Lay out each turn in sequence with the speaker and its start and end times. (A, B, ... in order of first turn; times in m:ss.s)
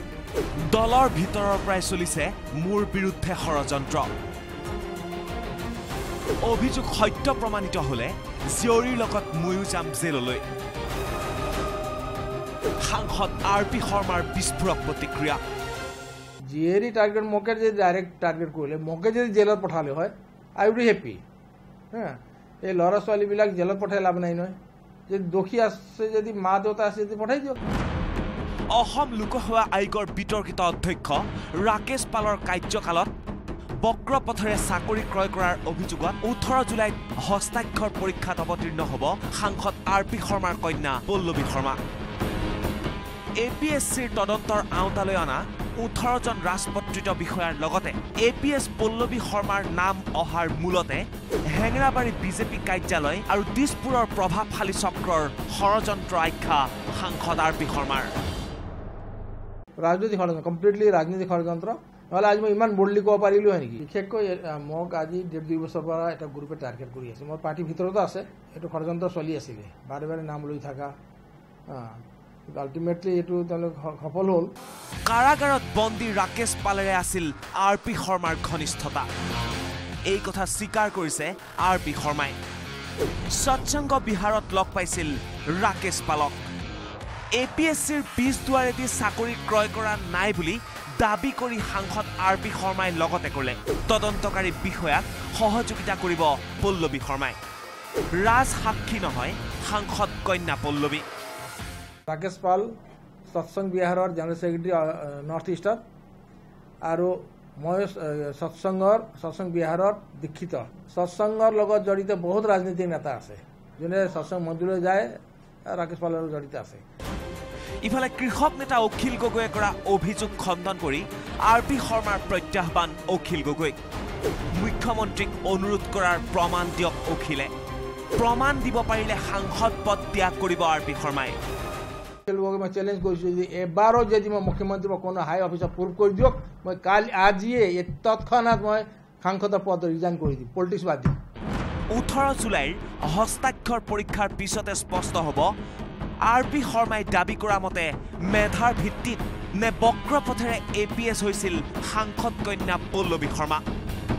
0:00.7-0:04.1 A
0:06.4-0:10.4 A
0:12.8-0:15.4 A
0:16.5-0:21.2 B
0:21.9-0:24.6 B
0:25.1-0:27.6 B
0:28.7-0:33.1 A
0:33.8-0:41.8 A
0:43.4-0:58.1 A
0:59.8-1:10.9 B
1:11.7-1:14.5 B
1:15.1-1:19.1 A
1:20.1-1:22.4 A
1:23.3-1:26.4 A
1:27.4-1:37.4 A
1:38.2-1:41.0 A
1:42.1-1:42.7 B
1:43.3-1:45.8 B
1:46.8-1:55.2 B
1:55.7-1:56.8 B
1:57.8-2:03.8 A
2:04.6-2:07.5 A
2:08.2-2:11.4 A
2:12.3-2:21.2 B
2:21.9-2:25.5 A
2:26.3-2:33.6 A